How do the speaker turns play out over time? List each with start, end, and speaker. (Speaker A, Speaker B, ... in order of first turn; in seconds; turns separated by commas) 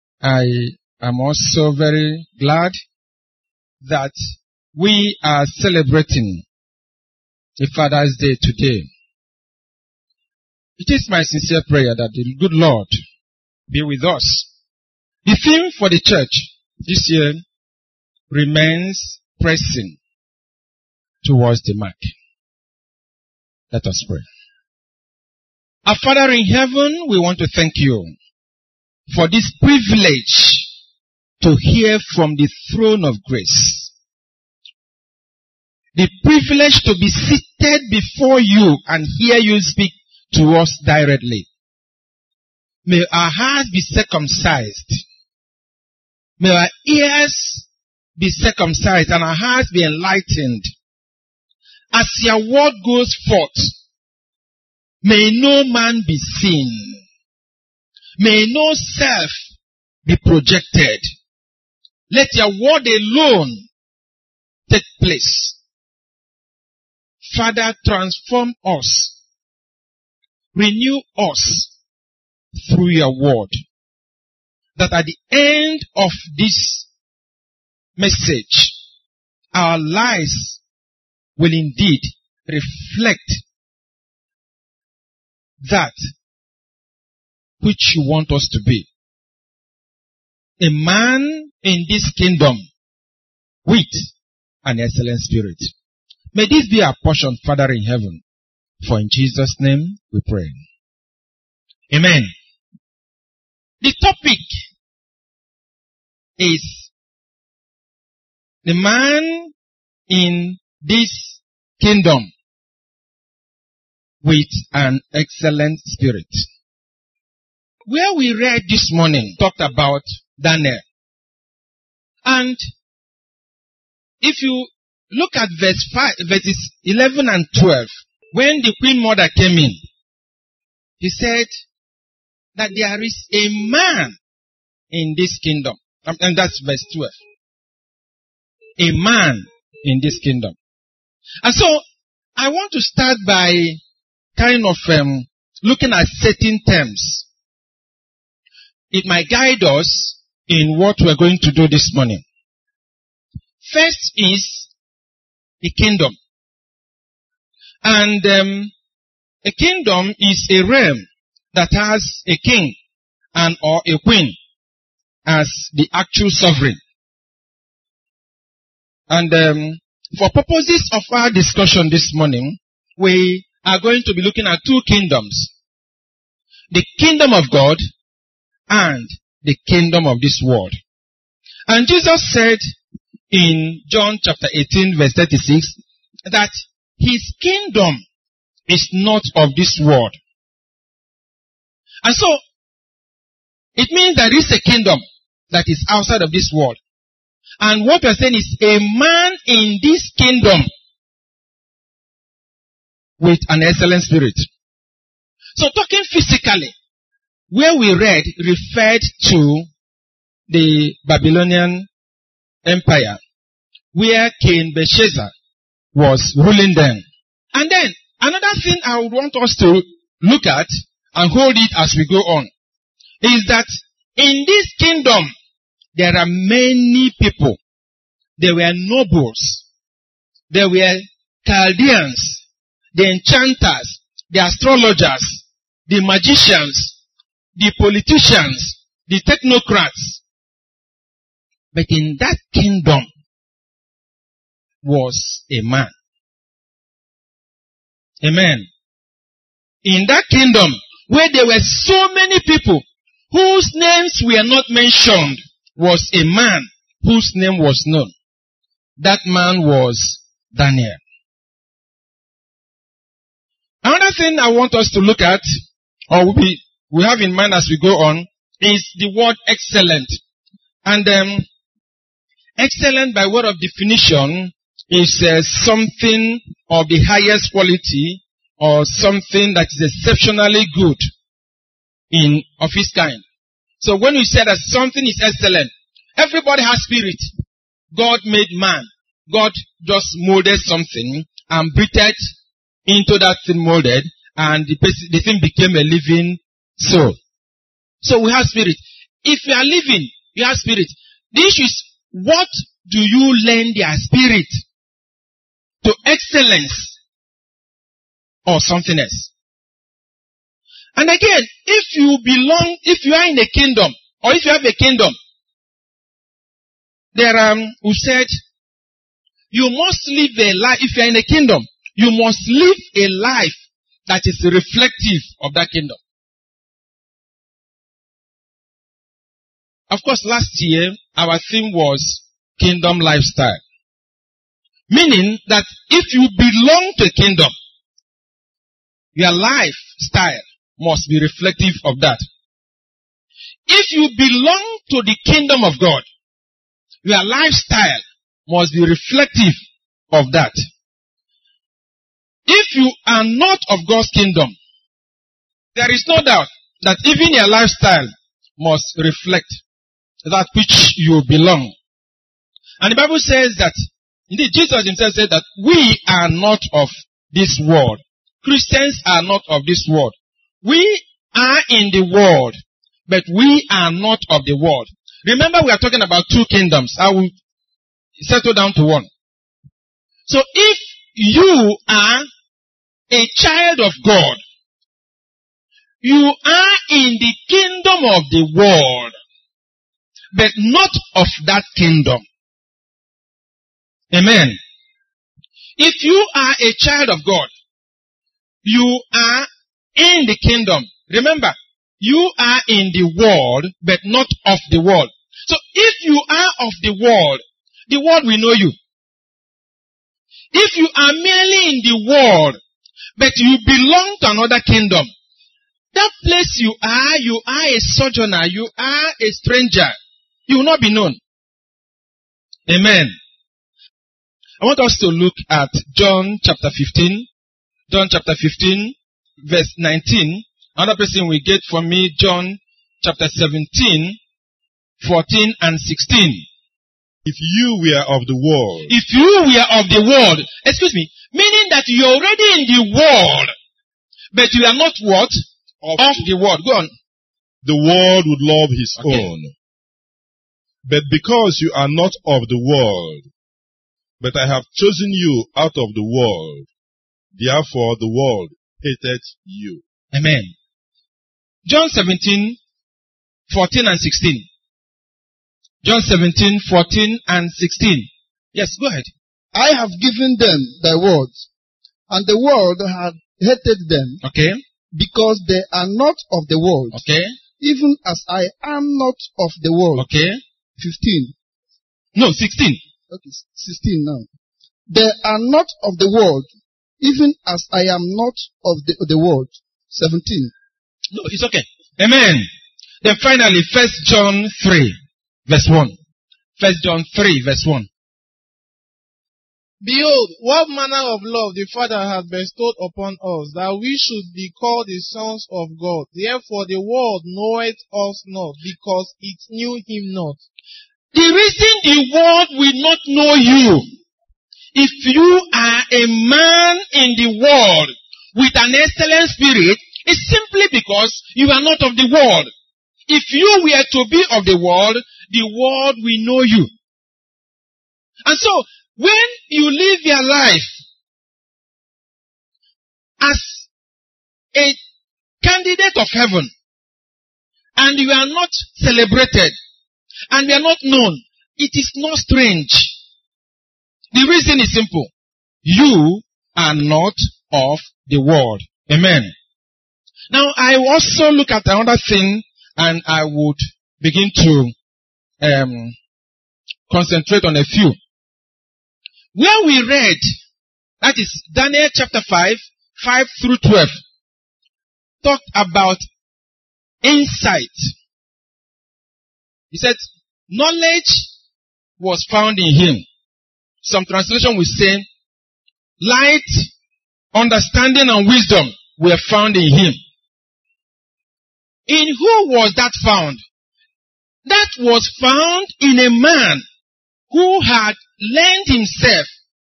Speaker A: 0.2-2.8, Speaker A: 3.8-4.2, Speaker A: 4.8-6.4, Speaker A: 7.6-8.9, Speaker A: 10.8-12.9, Speaker A: 13.7-14.5, Speaker A: 15.2-17.4, Speaker A: 18.3-20.0, Speaker A: 21.2-22.1, Speaker A: 23.7-24.2, Speaker A: 25.9-28.1, Speaker A: 29.1-30.7, Speaker A: 31.4-33.9, Speaker A: 36.0-41.5, Speaker A: 42.9-45.0, Speaker A: 46.4-47.7, Speaker A: 48.2-50.7, Speaker A: 51.9-53.7, Speaker A: 55.0-57.0, Speaker A: 58.2-59.4, Speaker A: 60.1-61.0, Speaker A: 62.1-63.7, Speaker A: 64.7-65.6, Speaker A: 67.2-69.1, Speaker A: 70.5-71.7, Speaker A: 72.5-73.6, Speaker A: 74.8-76.9, Speaker A: 78.0-78.7, Speaker A: 79.5-80.6, Speaker A: 81.4-83.4, Speaker A: 85.6-86.0, Speaker A: 87.6-88.9, Speaker A: 90.6-92.7, Speaker A: 93.7-94.1, Speaker A: 94.7-95.7, Speaker A: 96.3-98.2, Speaker A: 98.8-100.6, Speaker A: 101.9-102.3, Speaker A: 103.8-104.5, Speaker A: 106.4-106.9, Speaker A: 108.7-109.5, Speaker A: 110.1-112.3, Speaker A: 114.2-116.4, Speaker A: 117.9-120.8, Speaker A: 122.2-122.6, Speaker A: 124.2-129.8, Speaker A: 131.0-131.5, Speaker A: 132.6-134.2, Speaker A: 134.9-137.2, Speaker A: 138.8-140.6, Speaker A: 141.4-141.8, Speaker A: 142.4-143.8, Speaker A: 144.4-147.3, Speaker A: 148.9-152.2, Speaker A: 153.6-154.7, Speaker A: 155.6-156.2, Speaker A: 157.8-158.7, Speaker A: 159.4-162.8, Speaker A: 163.3-164.4, Speaker A: 165.3-166.8, Speaker A: 169.1-175.5, Speaker A: 176.7-177.8, Speaker A: 178.7-180.8, Speaker A: 181.7-182.6, Speaker A: 183.3-185.8, Speaker A: 186.3-188.0, Speaker A: 188.7-190.2, Speaker A: 192.0-192.4, Speaker A: 193.8-196.8, Speaker A: 197.6-200.7, Speaker A: 203.2-204.5, Speaker A: 205.6-206.7, Speaker A: 207.5-209.7, Speaker A: 210.5-211.9, Speaker A: 212.7-213.2, Speaker A: 213.9-215.3, Speaker A: 215.9-222.5, Speaker A: 223.2-225.3, Speaker A: 225.9-227.6, Speaker A: 228.4-229.6, Speaker A: 230.5-232.4, Speaker A: 232.9-236.9, Speaker A: 237.6-240.2, Speaker A: 241.7-243.1, Speaker A: 244.8-245.9, Speaker A: 248.2-248.7, Speaker A: 249.8-258.1, Speaker A: 259.0-261.0, Speaker A: 263.8-265.4, Speaker A: 266.1-270.2, Speaker A: 270.9-271.5, Speaker A: 272.6-281.1, Speaker A: 282.1-283.2, Speaker A: 283.8-287.3, Speaker A: 287.9-292.3, Speaker A: 292.9-297.2, Speaker A: 298.0-304.6, Speaker A: 305.8-307.0, Speaker A: 308.5-309.3, Speaker A: 311.0-315.1, Speaker A: 317.1-318.3, Speaker A: 319.5-326.0, Speaker A: 329.9-333.6, Speaker A: 334.9-337.5, Speaker A: 339.2-342.2, Speaker A: 343.7-346.1, Speaker A: 347.1-349.6, Speaker A: 350.1-350.6, Speaker A: 352.5-354.6, Speaker A: 355.8-359.6, Speaker A: 360.2-361.7, Speaker A: 362.8-363.7, Speaker A: 364.3-372.6, Speaker A: 373.1-377.3, Speaker A: 378.2-379.1, Speaker A: 380.3-382.3, Speaker A: 383.1-384.4, Speaker A: 386.0-389.1, Speaker A: 390.3-392.2, Speaker A: 394.1-394.6, Speaker A: 395.8-397.5, Speaker A: 398.6-408.8, Speaker A: 410.5-412.6, Speaker A: 413.2-415.1, Speaker A: 415.9-420.0, Speaker A: 420.5-421.2, Speaker A: 422.7-423.1, Speaker A: 424.6-427.3, Speaker A: 427.9-434.2, Speaker A: 435.0-436.4, Speaker B: 437.2-438.9, Speaker A: 438.9-443.5, Speaker A: 444.3-445.4, Speaker B: 445.8-446.1, Speaker A: 446.0-446.9, Speaker B: 447.6-449.5, Speaker A: 449.0-449.3, Speaker B: 450.9-453.3, Speaker B: 454.2-456.7, Speaker B: 457.4-459.8, Speaker A: 460.1-460.5, Speaker A: 461.7-462.6, Speaker A: 463.5-464.5, Speaker A: 465.8-469.1, Speaker C: 469.5-471.5, Speaker C: 472.1-474.2, Speaker A: 474.2-474.6, Speaker C: 474.9-477.0, Speaker A: 476.9-477.3, Speaker C: 477.6-480.1, Speaker A: 480.0-480.4, Speaker C: 480.8-481.3, Speaker A: 482.2-482.8, Speaker C: 483.1-484.3, Speaker C: 484.9-490.5, Speaker A: 491.1-492.5, Speaker A: 493.0-494.9, Speaker A: 495.5-496.0, Speaker A: 496.6-497.9, Speaker D: 499.8-510.4, Speaker A: 511.1-513.9, Speaker A: 514.7-522.5, Speaker A: 523.1-526.7, Speaker A: 528.3-530.7, Speaker A: 533.2-533.7, Speaker A: 535.4-536.5, Speaker A: 537.8-539.5, Speaker A: 540.3-542.9, Speaker A: 544.1-545.1, Speaker A: 545.6-549.3, Speaker A: 550.3-554.7, Speaker A: 555.4-555.9, Speaker A: 556.9-558.0, Speaker A: 559.4-560.2, Speaker A: 561.0-564.0, Speaker A: 565.2-566.0, Speaker A: 567.0-567.9, Speaker A: 569.7-571.3, Speaker A: 572.0-573.0, Speaker A: 573.8-575.1, Speaker A: 576.0-576.7, Speaker A: 577.3-580.0, Speaker A: 581.9-583.4, Speaker A: 584.5-586.6, Speaker A: 587.3-589.3